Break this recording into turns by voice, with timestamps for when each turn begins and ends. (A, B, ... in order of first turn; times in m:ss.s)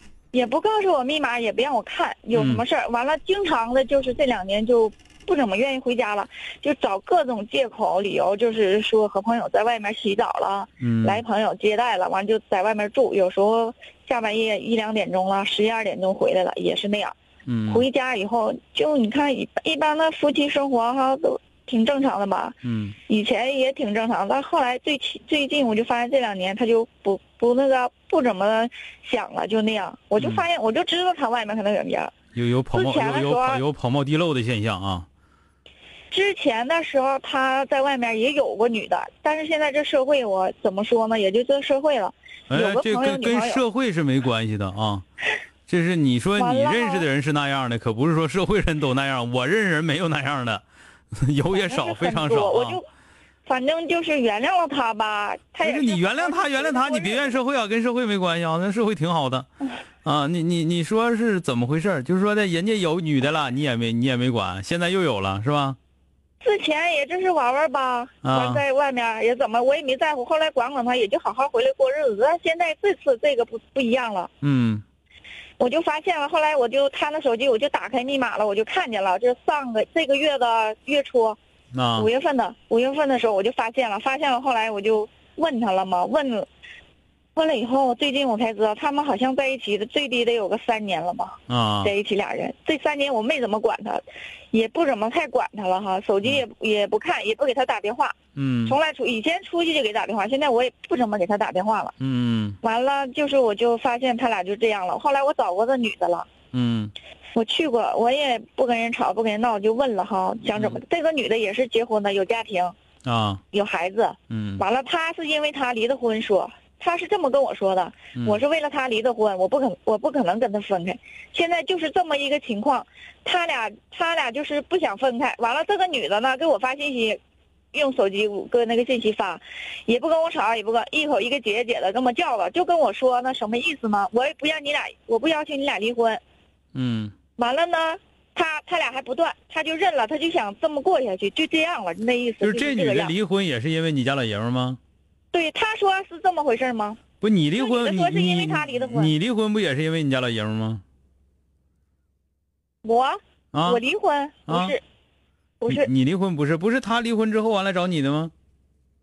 0:00.3-0:17.2 A
0:02.3-0:02.6 B
0:10.8-0:11.2 B
0:17.5-0:17.8 B
0:17.7-0:22.6 A
0:22.6-0:23.0 B
0:23.1-0:32.1 A
0:30.2-0:30.4 B
0:32.3-0:35.1 B
0:32.7-0:33.6 A
0:36.1-0:43.6 A
0:42.5-0:45.0 B
0:45.7-0:50.6 B
0:46.4-0:47.0 A
0:51.2-0:52.8 B
0:51.5-0:52.8 A
0:53.5-0:57.4 A
0:55.6-0:59.5 B
1:00.0-1:05.8 B
1:06.4-1:14.3 A
1:08.2-1:08.6 B
1:14.4-1:14.8 B
1:15.6-1:21.4 A
1:21.7-1:22.1 B
1:22.0-1:26.5 A
1:27.4-1:38.2 A
1:31.5-1:31.9 B
1:38.4-1:38.8 B
1:38.7-1:41.9 A
1:42.0-1:42.6 B
1:42.6-1:46.3 A
1:46.5-1:46.9 B
1:47.4-1:52.7 A
1:50.6-1:50.8 B
1:53.0-1:53.4 B
1:53.5-2:07.2 A
1:54.3-1:54.6 B
1:58.2-1:58.4 B
2:07.7-2:16.2 A
2:16.8-2:17.1 B
2:17.4-2:23.1 A
2:22.4-2:24.8 B
2:25.3-2:27.0 A
2:27.2-2:30.8 B
2:27.6-2:29.1 A
2:32.8-2:34.8 A
2:33.5-2:33.8 B
2:34.5-2:34.8 B
2:35.6-2:35.9 A
2:35.7-2:38.3 B